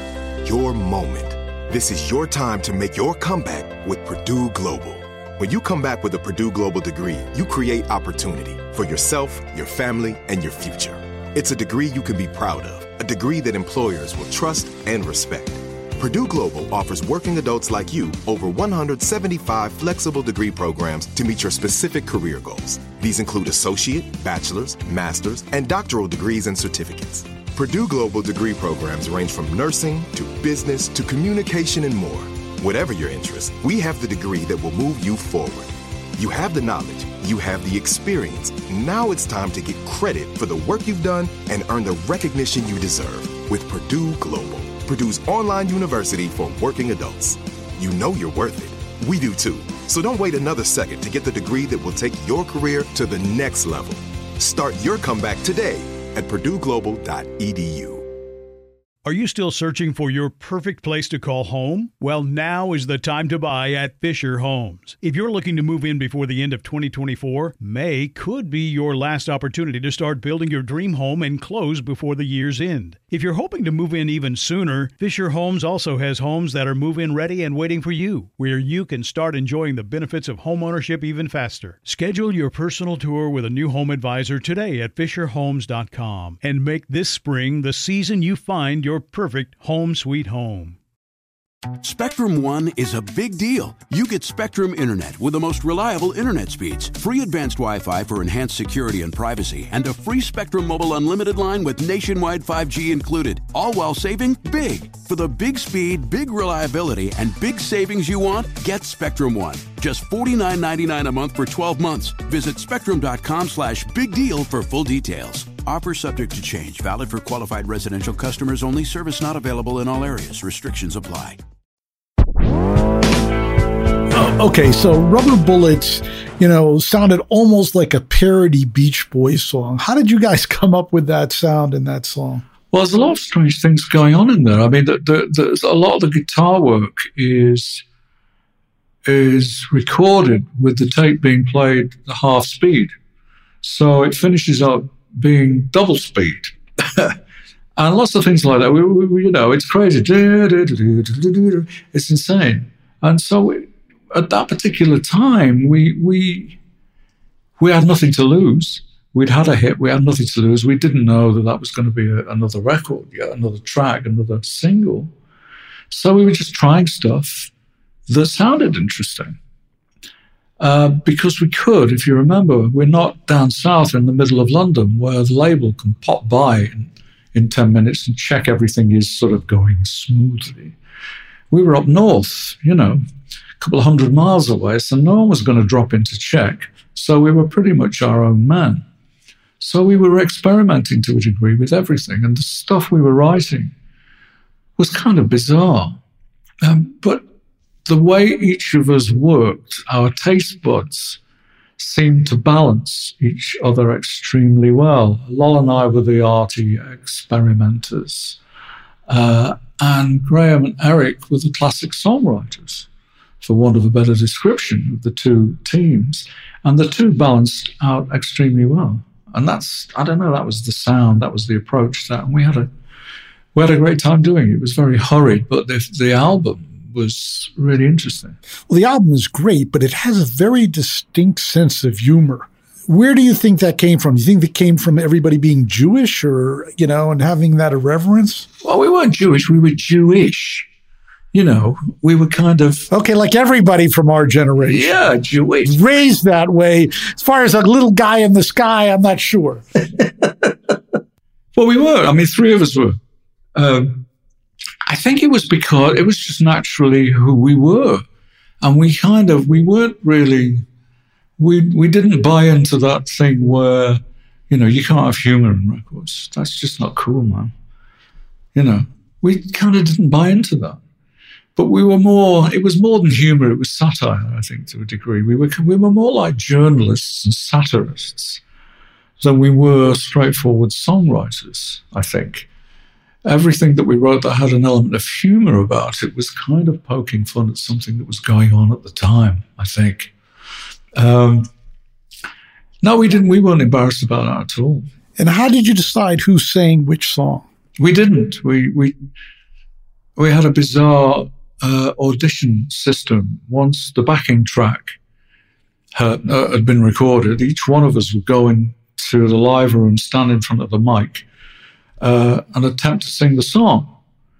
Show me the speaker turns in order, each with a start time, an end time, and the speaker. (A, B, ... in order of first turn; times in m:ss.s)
0:00.4-0:58.1 A
0:59.0-1:30.8 B
1:31.8-2:01.4 C
2:04.1-2:12.4 D
2:12.7-2:17.8 E
2:19.0-2:22.9 E
2:23.6-2:27.2 E
2:27.8-2:36.6 E
2:37.6-2:45.1 E
2:45.9-2:47.5 E
2:48.1-2:49.4 E
2:50.6-3:00.8 E
3:01.5-3:03.0 E
3:03.6-3:08.8 E
3:09.6-3:13.7 E
3:14.8-3:16.0 E
3:16.6-3:17.2 E
3:17.8-3:21.2 E
3:21.8-3:28.4 E
3:29.1-3:32.9 E
3:33.4-3:42.7 E
3:43.5-3:48.4 E
3:48.7-3:58.4 D
3:58.6-4:00.7 E
4:01.3-4:02.9 E
4:02.9-4:04.9 D
4:04.7-4:05.7 E
4:05.6-4:09.6 D
4:09.9-4:10.7 E
4:11.5-4:13.0 E
4:13.5-4:14.1 E
4:14.8-4:18.0 E
4:18.6-4:20.6 E
4:21.4-4:27.5 E
4:28.5-4:30.8 E
4:31.6-4:38.4 E
4:39.2-4:42.5 E
4:43.2-4:50.1 E
4:51.0-4:51.5 E
4:52.8-4:54.9 E
4:55.2-4:57.4 D
4:57.8-4:58.9 E
5:00.2-5:05.0 E
5:05.9-5:11.2 E
5:12.0-5:13.9 E